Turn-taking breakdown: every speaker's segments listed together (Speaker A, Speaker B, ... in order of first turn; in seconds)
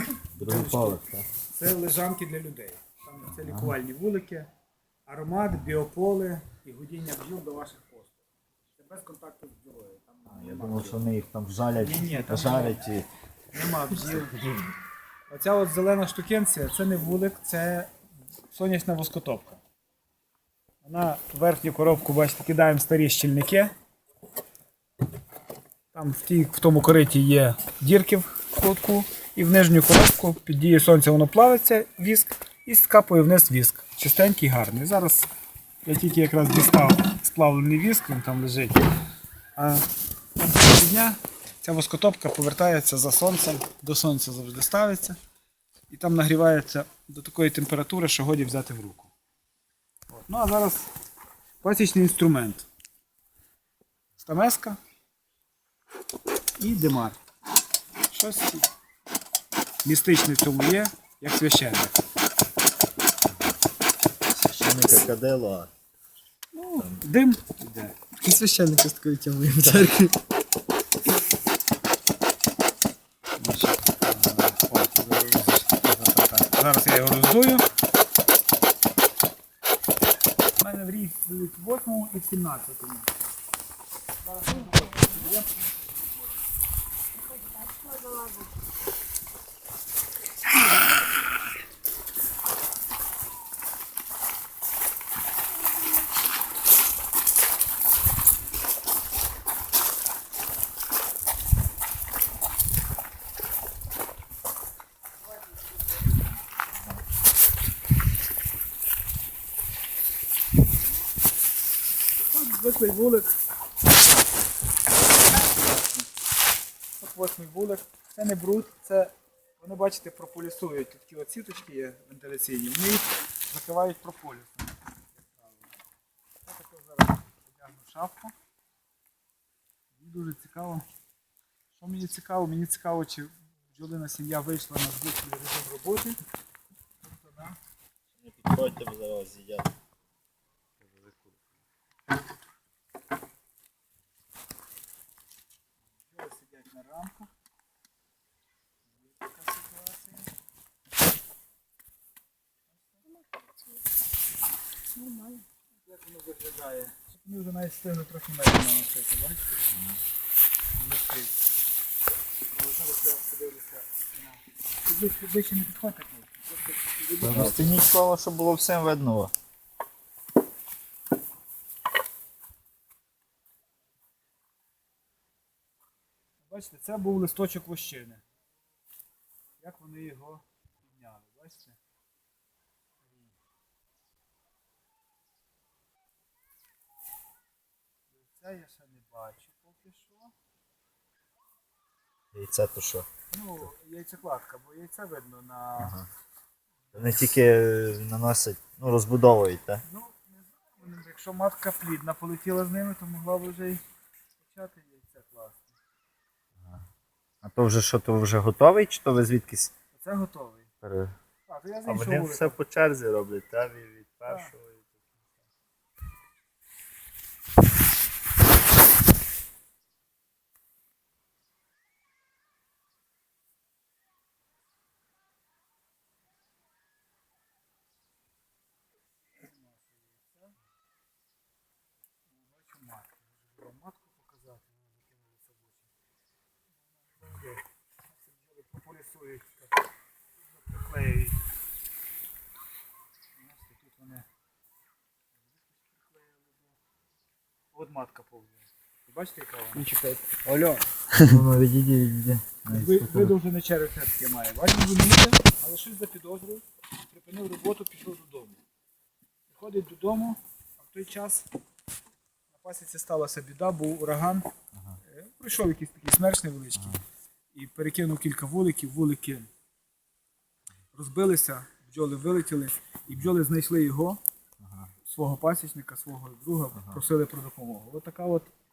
Speaker A: 0.3-1.2, 3.3-3.7, 10.3-13.1, 14.0-14.7, 64.3-65.7, 66.8-67.0, 138.2-139.7, 140.8-141.5, 159.7-160.0, 167.2-169.3, 192.3-193.1, 195.8-196.1, 196.9-199.8, 206.6-206.9, 207.4-209.7, 210.8-211.2, 211.8-215.3, 251.2-253.3, 264.7-265.0, 266.8-267.0, 274.6-274.9, 276.7-277.0
Speaker B: 0.3-4.5, 5.1-8.2, 8.8-11.1, 11.8-12.8, 13.5-14.4, 15.3-17.9, 18.5-19.6, 20.8-23.7, 25.9-35.3, 35.8-38.9, 39.5-39.9, 40.4-45.2, 45.9-49.1, 50.2-50.9, 51.6-52.7, 54.2-54.8, 56.6-57.2, 58.1-58.7, 59.8-62.0, 66.5-70.2, 73.4-77.7, 80.6-83.1, 84.2-86.4, 112.2-113.4, 115.3-116.1, 117.0-125.8, 126.5-128.3, 129.9-130.8, 131.7-136.2, 137.0-137.6, 146.0-147.3, 148.9-150.3, 152.7-153.1, 155.8-159.6, 160.8-161.4, 162.5-167.8, 176.5-178.2, 179.6-181.8, 183.0-183.3, 188.1-190.3, 193.3-196.0, 199.8-203.8, 204.4-205.8, 209.9-210.7, 211.5-212.6, 214.3-214.5, 229.4-230.6, 232.3-235.9, 236.8-239.9, 240.5-241.4, 243.4-244.3, 245.4-246.8, 247.7-249.9, 252.7-258.6, 259.5-261.5, 262.5-264.5, 265.0-267.0, 267.5-269.5, 270.9-274.2, 275.1-278.5
Speaker C: 84.7-85.2, 87.2-88.5, 153.1-153.8, 154.9-155.4, 249.8-251.3